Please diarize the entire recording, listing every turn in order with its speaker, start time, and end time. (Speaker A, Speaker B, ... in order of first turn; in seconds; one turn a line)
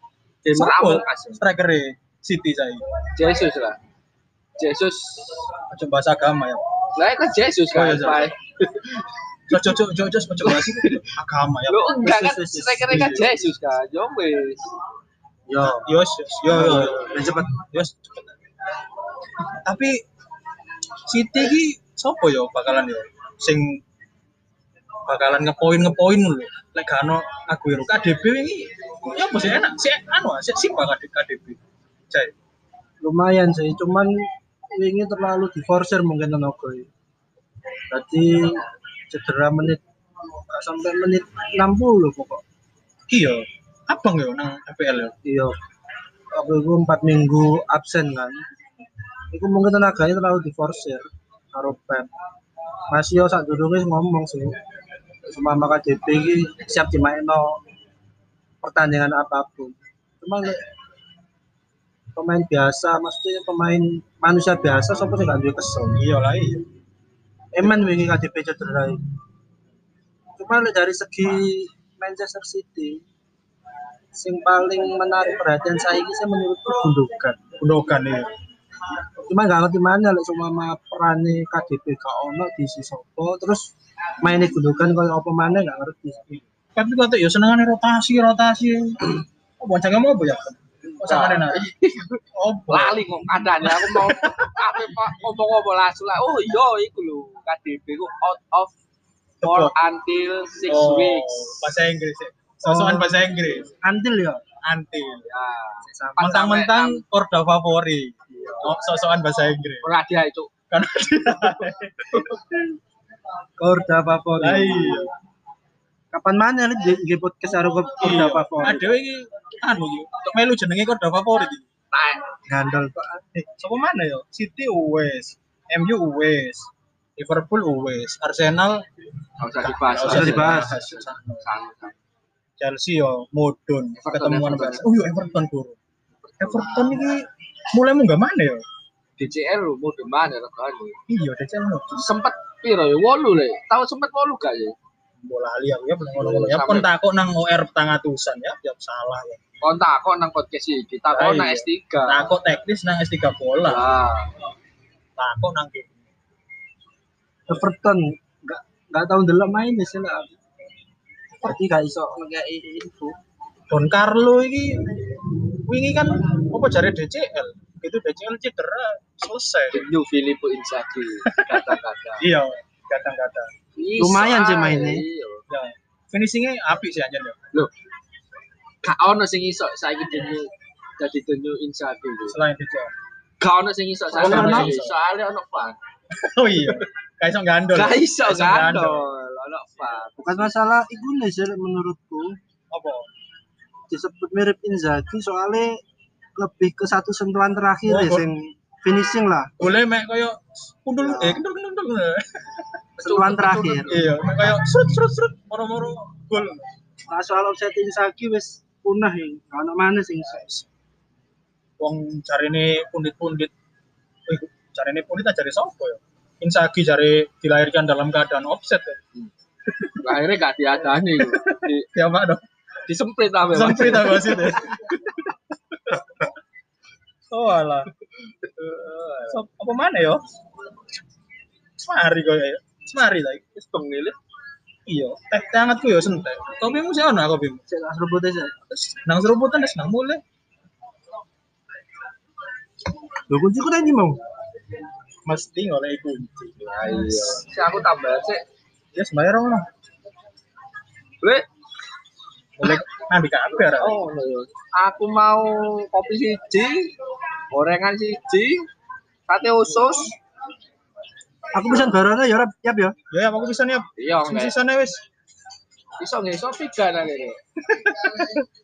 Speaker A: 0.4-1.4
Speaker B: 0.5-2.8
Speaker A: 3.1-3.8
Speaker A: 4.6-5.5
Speaker B: 5.7-6.6
Speaker A: 6.9-9.0
Speaker B: 7.7-8.3
Speaker B: 9.5-11.9
Speaker A: 10.4-10.9
Speaker A: 11.7-14.7
Speaker C: 12.0-13.4
Speaker B: 12.9-13.3
Speaker C: 15.5-15.9
Speaker B: 15.8-18.3
Speaker C: 16.5-17.7
Speaker B: 19.5-20.0
Speaker B: 21.1-23.8
Speaker B: 25.1-31.6
Speaker C: 33.0-34.2
Speaker C: 34.7-36.9
Speaker C: 37.9-42.4
Speaker B: 43.1-45.1
Speaker C: 45.2-45.5
Speaker C: 46.3-48.4
Speaker C: 49.3-52.1
Speaker C: 52.9-54.5
Speaker C: 55.3-57.6
Speaker C: 58.6-60.6
Speaker C: 62.1-66.0
Speaker B: 66.0-66.6
Speaker C: 67.5-69.0
Speaker C: 70.4-73.0
Speaker C: 74.1-77.4
Speaker B: 77.6-78.3
Speaker C: 79.3-83.7
Speaker C: 84.2-86.4
Speaker B: 86.7-91.7
Speaker A: 91.0-98.7
Speaker B: 92.3-93.0
Speaker B: 93.6-94.8
Speaker B: 99.4-99.7
Speaker A: 99.4-101.6
Speaker B: 100.7-103.7
Speaker C: 102.6-104.4
Speaker B: 104.6-105.2
Speaker A: 105.3-107.0
Speaker C: 105.8-106.3
Speaker B: 106.2-109.8
Speaker C: 108.3-108.7
Speaker A: 109.8-110.5
Speaker B: 110.7-112.4
Speaker C: 113.6-115.1
Speaker B: 114.4-115.1
Speaker C: 116.1-119.0
Speaker B: 118.0-121.6
Speaker A: 121.9-122.2
Speaker C: 122.5-123.2
Speaker B: 123.3-128.8
Speaker A: 129.4-131.9
Speaker B: 129.6-131.4
Speaker C: 130.1-130.7
Speaker B: 132.6-135.8
Speaker A: 133.9-134.9
Speaker A: 136.3-137.0
Speaker B: 136.4-138.6
Speaker A: 139.2-140.9
Speaker B: 141.1-142.1
Speaker A: 141.9-144.7
Speaker B: 145.2-149.4
Speaker A: 146.2-146.9
Speaker A: 149.6-152.2
Speaker B: 151.1-153.8
Speaker A: 153.6-154.3
Speaker B: 155.2-155.9
Speaker C: 157.5-160.3
Speaker C: 161.4-163.2
Speaker B: 163.7-169.8
Speaker A: 169.7-172.2
Speaker B: 172.2-173.5
Speaker A: 173.8-175.4
Speaker C: 174.0-175.0
Speaker B: 175.5-177.4
Speaker A: 178.8-182.4
Speaker B: 182.3-182.9
Speaker A: 183.4-185.8
Speaker B: 184.1-184.9
Speaker C: 184.2-184.8
Speaker B: 186.2-189.1
Speaker A: 187.7-190.5
Speaker C: 190.2-192.3
Speaker B: 192.7-193.1
Speaker C: 193.9-195.8
Speaker C: 196.3-199.5
Speaker B: 197.9-198.3
Speaker B: 199.6-202.6
Speaker C: 201.0-201.4
Speaker C: 203.0-204.0
Speaker A: 203.0-204.1
Speaker B: 203.9-206.6
Speaker C: 207.1-210.6
Speaker B: 211.8-213.5
Speaker B: 214.3-219.0
Speaker A: 220.0-221.9
Speaker B: 221.2-222.4
Speaker A: 222.9-224.9
Speaker B: 223.5-225.1
Speaker B: 225.8-226.3
Speaker B: 227.3-227.9
Speaker A: 228.4-229.4
Speaker B: 229.3-230.2
Speaker B: 231.8-233.4
Speaker A: 233.5-234.2
Speaker B: 234.9-237.6
Speaker C: 237.7-238.5
Speaker B: 238.7-240.2
Speaker C: 243.3-244.2
Speaker B: 245.2-246.5
Speaker A: 246.6-248.4
Speaker B: 248.9-249.7
Speaker B: 252.6-254.0
Speaker A: 253.8-256.9
Speaker A: 257.5-258.7
Speaker A: 259.3-260.1
Speaker C: 261.5-262.9
Speaker B: 263.1-265.0
Speaker A: 264.0-264.6
Speaker A: 266.0-267.4
Speaker B: 267.7-268.5